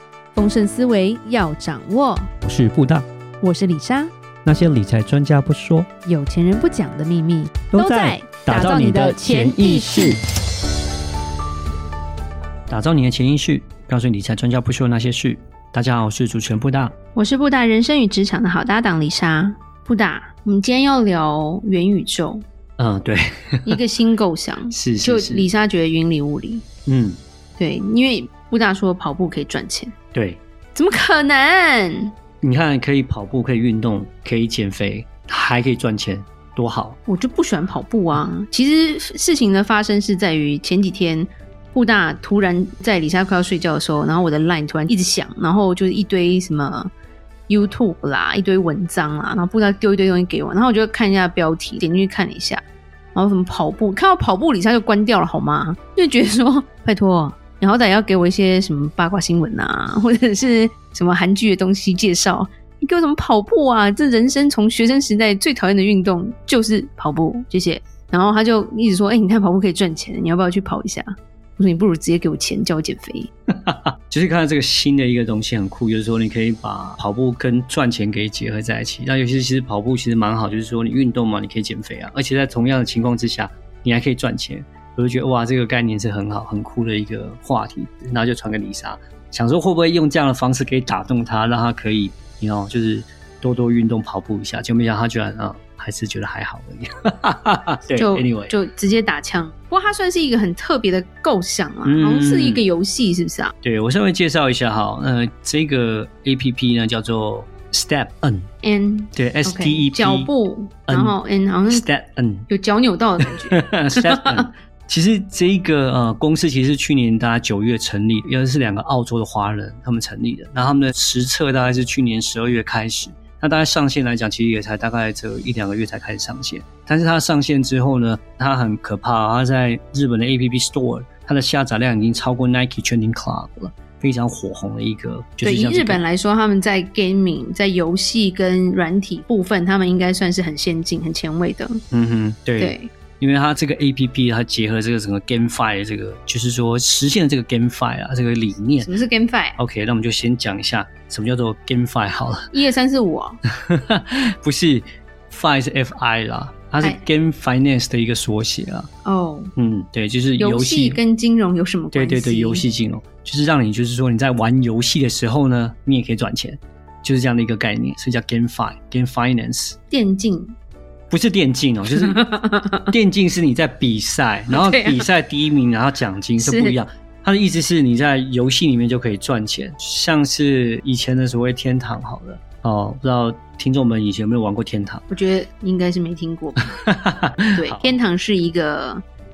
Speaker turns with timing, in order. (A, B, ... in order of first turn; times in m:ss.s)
0:00.3-0:02.3 A
0:02.4-0:03.1 B
0:03.4-0:04.1 A
0:04.4-0:05.9 B
0:06.0-0:10.2 A
0:07.7-0:10.2 B
0:12.7-0:16.9 B
0:17.1-0:22.4 A
0:22.8-0:23.8 B
0:23.6-0:26.6 A
0:24.7-0:25.5 B
0:26.8-0:27.2 B
0:27.6-0:29.9 A
0:30.1-0:30.4 B
0:30.7-0:32.1 A
0:32.4-0:37.0 B
0:37.1-0:46.9 A
0:47.5-1:13.3 A
1:13.5-1:38.5 B
1:38.0-1:43.5 A
1:41.8-1:42.6 B
1:43.6-1:48.5 B
1:48.6-1:51.8 A
1:49.1-1:50.3 B
1:50.9-1:51.2 B
1:51.7-1:52.5 B
1:52.5-1:54.4 A
1:53.5-2:16.0 B
2:15.4-2:21.8 A
2:21.9-2:28.9 B
2:22.6-2:22.9 A
2:28.8-2:29.6 A
2:29.6-2:32.5 B
2:32.5-2:33.4 A
2:33.6-2:38.9 B
2:39.0-2:39.5 A
2:39.6-2:41.0 B
2:40.4-2:42.6 A
2:41.9-2:49.8 B
2:49.9-2:50.6 A
2:51.1-2:52.2 B
2:52.0-2:52.9 A
2:52.9-3:05.0 B
2:54.5-2:55.0 A
2:56.4-2:56.8 A
3:05.1-3:06.8 A
3:06.8-3:08.0 B
3:07.5-3:09.0 A